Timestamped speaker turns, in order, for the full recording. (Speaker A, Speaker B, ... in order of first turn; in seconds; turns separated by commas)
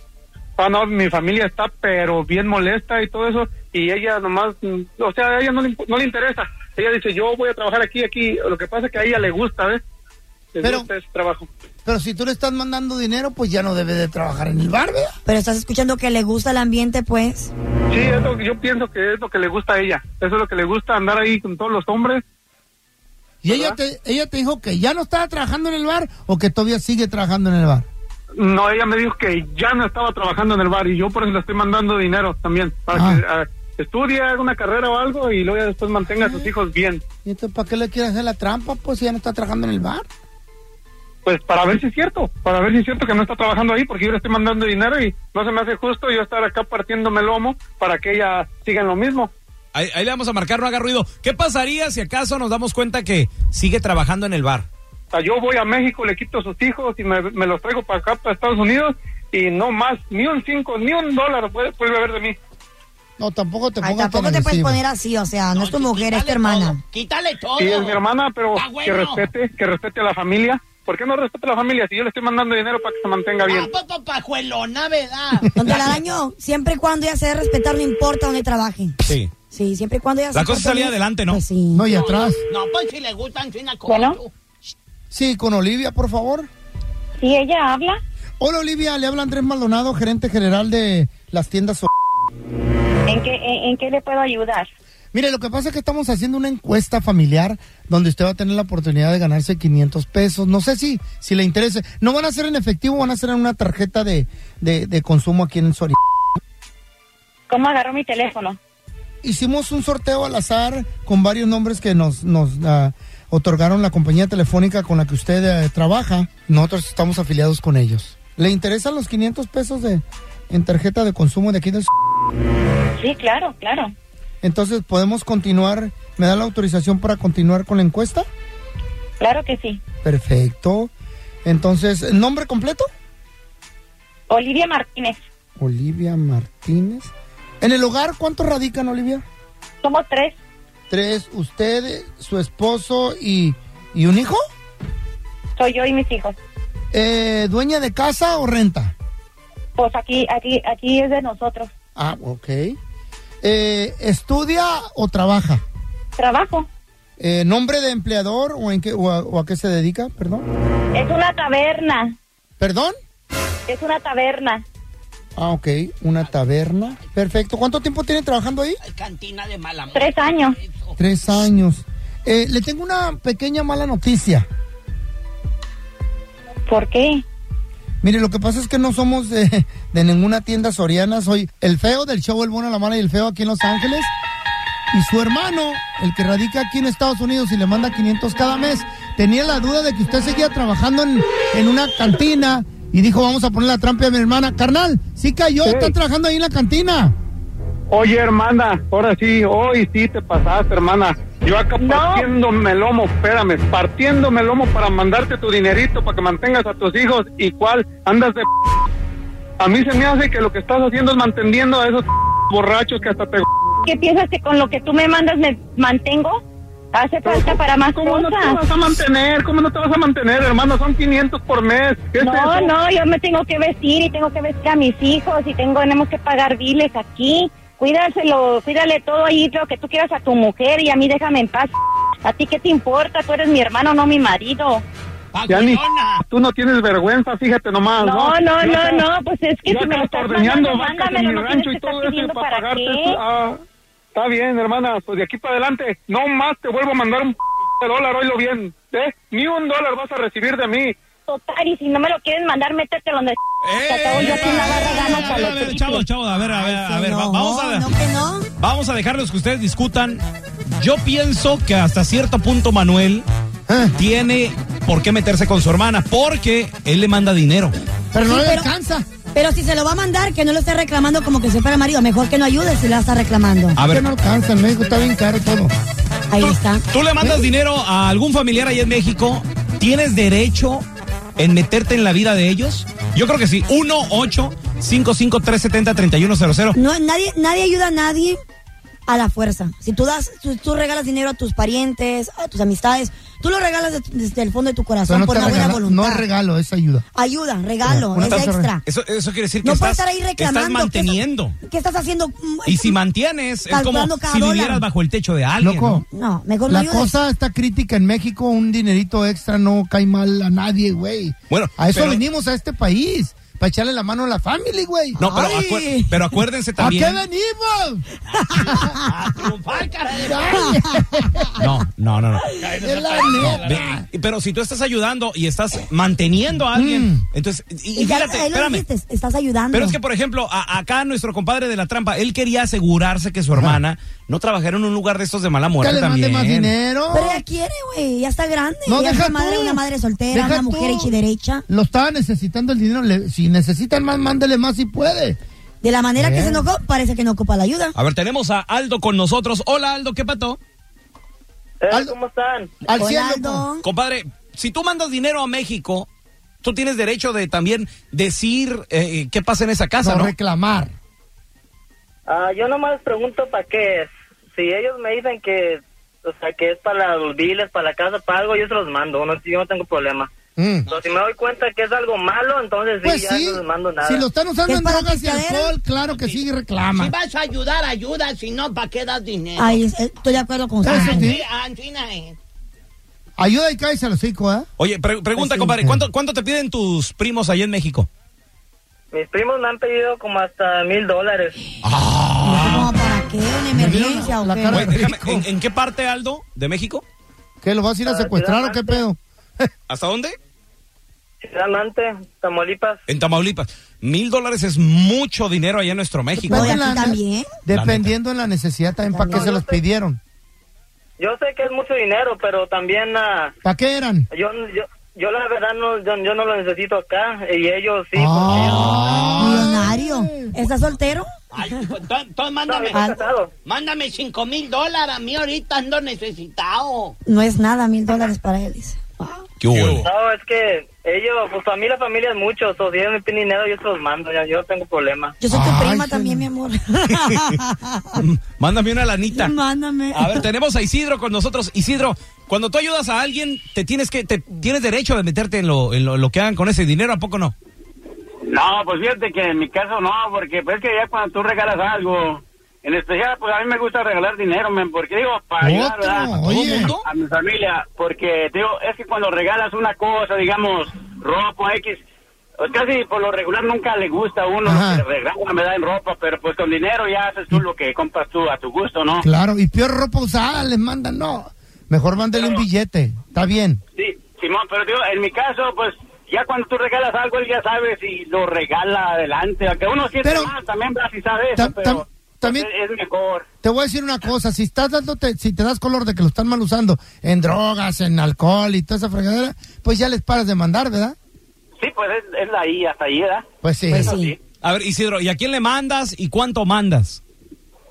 Speaker A: 0.6-9.8, Speaker A: 10.5-11.5, Speaker B: 10.6-10.9, Speaker B: 11.8-15.1, Speaker C: 15.2-17.5, Speaker A: 17.9-22.2, Speaker B: 23.4-27.9, Speaker A: 23.5-23.8, Speaker A: 28.4-37.0, Speaker B: 32.9-33.2, Speaker B: 37.2-40.0, Speaker A: 41.2-49.3, Speaker D: 49.7-54.6, Speaker A: 55.1-62.4, Speaker B: 63.2-64.8, Speaker C: 63.8-66.8, Speaker E: 65.5-68.0, Speaker A: 67.6-73.7, Speaker E: 68.5-69.3, Speaker E: 73.4-75.8, Speaker C: 75.5-79.0, Speaker D: 79.0-79.3, Speaker C: 79.5-81.9, Speaker D: 80.3-81.4, Speaker B: 81.7-82.4, Speaker E: 81.9-84.3, Speaker F: 83.8-84.2, Speaker B: 85.1-86.5, Speaker F: 87.2-88.0, Speaker B: 88.4-91.9, Speaker F: 93.1-94.7, Speaker B: 95.1-106.0, Speaker F: 107.5-108.6, Speaker B: 109.2-121.9, Speaker F: 123.0-123.9, Speaker B: 124.4-128.2, Speaker F: 129.2-129.8, Speaker B: 130.0-130.9, Speaker B: 131.4-132.8, Speaker F: 134.3-135.2, Speaker B: 135.6-137.1, Speaker B: 137.6-139.2, Speaker F: 139.8-140.3, Speaker B: 140.9-144.4, Speaker F: 145.6-146.3, Speaker B: 146.9-148.9, Speaker F: 149.8-151.7, Speaker B: 151.9-152.8, Speaker B: 153.4-155.6, Speaker F: 156.2-156.7, Speaker B: 157.2-160.4, Speaker F: 160.9-162.1, Speaker B: 162.6-162.9, Speaker F: 163.7-164.6, Speaker B: 165.3-168.8, Speaker E: 168.8-171.0, Speaker F: 169.9-170.5, Speaker B: 171.0-174.4, Speaker F: 176.7-177.2, Speaker B: 178.0-184.1, Speaker B: 184.9-197.1, Speaker A: 195.6-195.9, Speaker A: 197.9-208.5, Speaker F: 201.8-202.3, Speaker A: 209.6-213.5, Speaker F: 213.8-216.4, Speaker F: 216.9-218.6, Speaker A: 217.2-222.7, Speaker F: 222.2-231.7, Speaker F: 232.2-234.8, Speaker E: 235.3-236.2, Speaker A: 235.5-239.0, Speaker F: 238.0-243.2, Speaker A: 239.7-243.6, Speaker A: 244.1-250.9, Speaker F: 251.3-256.0, Speaker D: 253.6-257.9, Speaker C: 254.9-255.3, Speaker C: 256.5-258.5, Speaker D: 258.6-260.2, Speaker D: 260.8-263.2, Speaker B: 263.7-264.0, Speaker D: 264.0-267.7, Speaker B: 268.1-269.1, Speaker C: 268.2-268.7, Speaker C: 269.3-273.8, Speaker D: 273.8-274.0, Speaker B: 273.9-275.7, Speaker C: 276.3-277.4, Speaker D: 276.4-280.8, Speaker D: 281.4-286.8, Speaker C: 286.7-288.4, Speaker C: 289.1-296.2, Speaker B: 295.0-297.0, Speaker C: 297.1-298.8, Speaker B: 297.8-298.7, Speaker D: 298.2-301.6, Speaker C: 299.6-302.9, Speaker D: 302.6-306.0, Speaker C: 303.7-304.8, Speaker B: 305.6-306.0, Speaker C: 306.1-307.2, Speaker B: 306.7-315.3, Speaker D: 311.5-312.2, Speaker D: 315.2-317.2, Speaker C: 315.2-316.1, Speaker B: 316.8-318.0, Speaker E: 318.3-320.7, Speaker C: 318.6-318.9, Speaker B: 320.2-321.6, Speaker D: 321.6-322.7, Speaker E: 322.6-323.8, Speaker B: 322.6-324.1, Speaker D: 323.5-328.8, Speaker B: 326.7-327.2, Speaker C: 327.9-330.0, Speaker D: 329.7-336.7, Speaker B: 333.5-333.8, Speaker B: 335.8-337.4, Speaker C: 337.1-341.6, Speaker B: 338.9-341.1, Speaker B: 341.7-345.4, Speaker C: 345.8-347.9, Speaker B: 346.1-346.7, Speaker D: 347.9-350.6, Speaker G: 351.8-352.7, Speaker B: 351.9-352.1, Speaker B: 352.8-353.6, Speaker C: 352.9-353.8, Speaker D: 353.8-356.1, Speaker D: 356.6-360.3, Speaker B: 360.0-360.9, Speaker G: 362.3-370.3, Speaker B: 370.6-370.9, Speaker G: 370.9-374.2, Speaker B: 373.0-377.1, Speaker C: 374.6-375.7, Speaker E: 376.0-379.8, Speaker C: 379.6-381.3, Speaker B: 380.8-381.4, Speaker E: 380.9-382.4, Speaker B: 383.4-384.7, Speaker D: 384.8-388.1, Speaker B: 385.4-386.1, Speaker G: 389.1-391.6, Speaker D: 391.8-392.9, Speaker C: 392.4-394.9, Speaker B: 393.7-395.5, Speaker D: 394.7-397.0, Speaker B: 397.6-399.7, Speaker G: 398.0-399.0, Speaker D: 399.9-400.4, Speaker G: 401.4-403.0, Speaker D: 403.1-406.8, Speaker B: 406.4-410.2, Speaker C: 406.5-407.5, Speaker D: 407.7-408.1, Speaker C: 409.1-409.5, Speaker G: 409.3-409.8, Speaker G: 411.2-413.5, Speaker B: 413.6-414.3, Speaker G: 414.3-419.2, Speaker B: 418.1-420.5, Speaker D: 419.2-419.4, Speaker C: 419.2-421.2, Speaker E: 421.5-423.1, Speaker G: 422.7-423.5, Speaker C: 422.9-423.2, Speaker E: 423.6-427.1, Speaker C: 427.2-429.4, Speaker D: 429.6-430.1, Speaker G: 430.0-435.4, Speaker C: 435.4-438.0, Speaker B: 435.5-436.5, Speaker D: 437.1-437.6, Speaker D: 438.1-439.5, Speaker C: 439.3-440.4, Speaker D: 440.1-447.5, Speaker H: 448.4-456.3, Speaker B: 455.6-456.9, Speaker D: 456.3-457.0, Speaker H: 456.9-462.0, Speaker H: 462.6-469.2, Speaker B: 464.6-465.0, Speaker B: 469.2-473.8, Speaker H: 473.9-483.4, Speaker B: 480.2-480.5, Speaker B: 481.5-482.7, Speaker B: 483.6-491.1, Speaker H: 491.8-493.4, Speaker B: 493.6-494.2, Speaker C: 493.9-494.3, Speaker H: 494.0-494.4, Speaker D: 494.6-497.2